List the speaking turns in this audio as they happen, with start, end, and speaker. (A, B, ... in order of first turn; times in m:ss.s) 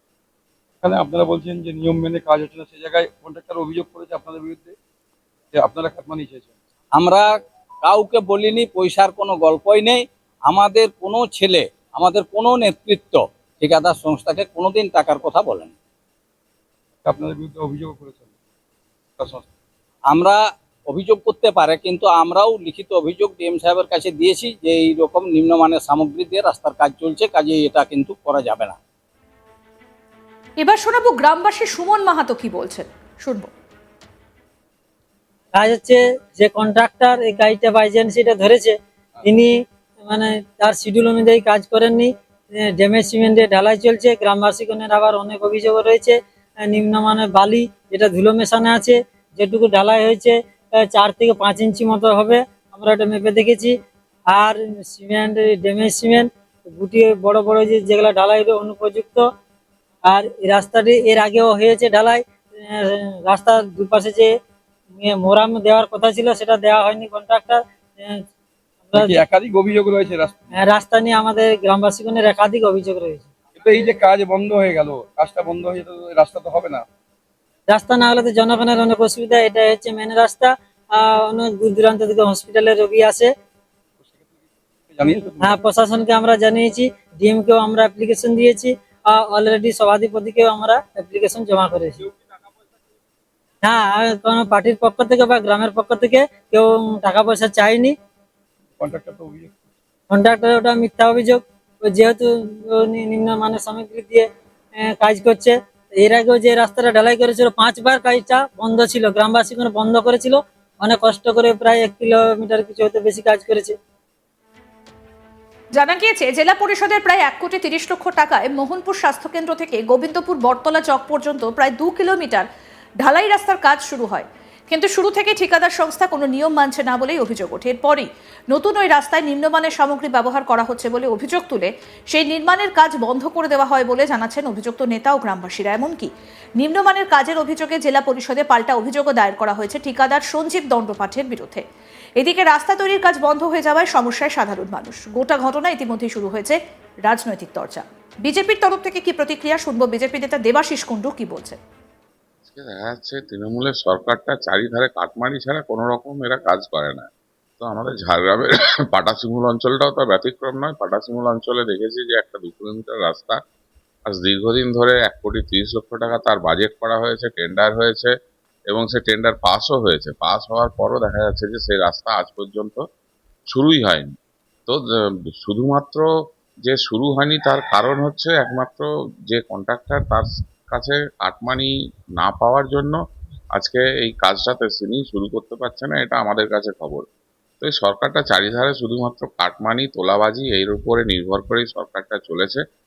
0:00.8-0:04.8 A
0:05.5-0:06.5 A
0:06.9-0:07.3 B
0:07.8-0:15.7 B
0:17.0-0:18.3 A
0:19.2-0:19.5 A
0:20.1-0:28.8 B
0:30.6-0:33.5 C
0:35.5-0:39.5 D
0:40.0-0:42.1 D
0:42.6-0:53.7 D
0:54.3-0:59.2 D
1:00.1-1:04.3 D
1:05.0-1:08.1 D
1:08.9-1:09.2 D
1:08.9-1:10.5 A
1:10.5-1:13.3 D
1:13.5-1:16.8 A
1:17.7-1:23.3 D
1:24.9-1:25.6 A
1:25.4-1:32.0 D
1:33.6-1:37.9 D
1:38.8-1:39.6 A
1:40.1-1:44.2 D
1:44.8-1:53.7 D
1:55.7-2:02.5 C
2:03.0-2:21.6 C
2:22.2-2:31.6 C
2:32.5-2:43.4 E
2:44.1-2:48.1 E
2:48.7-2:52.8 E
2:53.5-2:54.1 E
2:54.7-2:56.1 E
2:56.6-3:03.0 E
3:03.5-3:07.1 E
3:07.6-3:12.6 E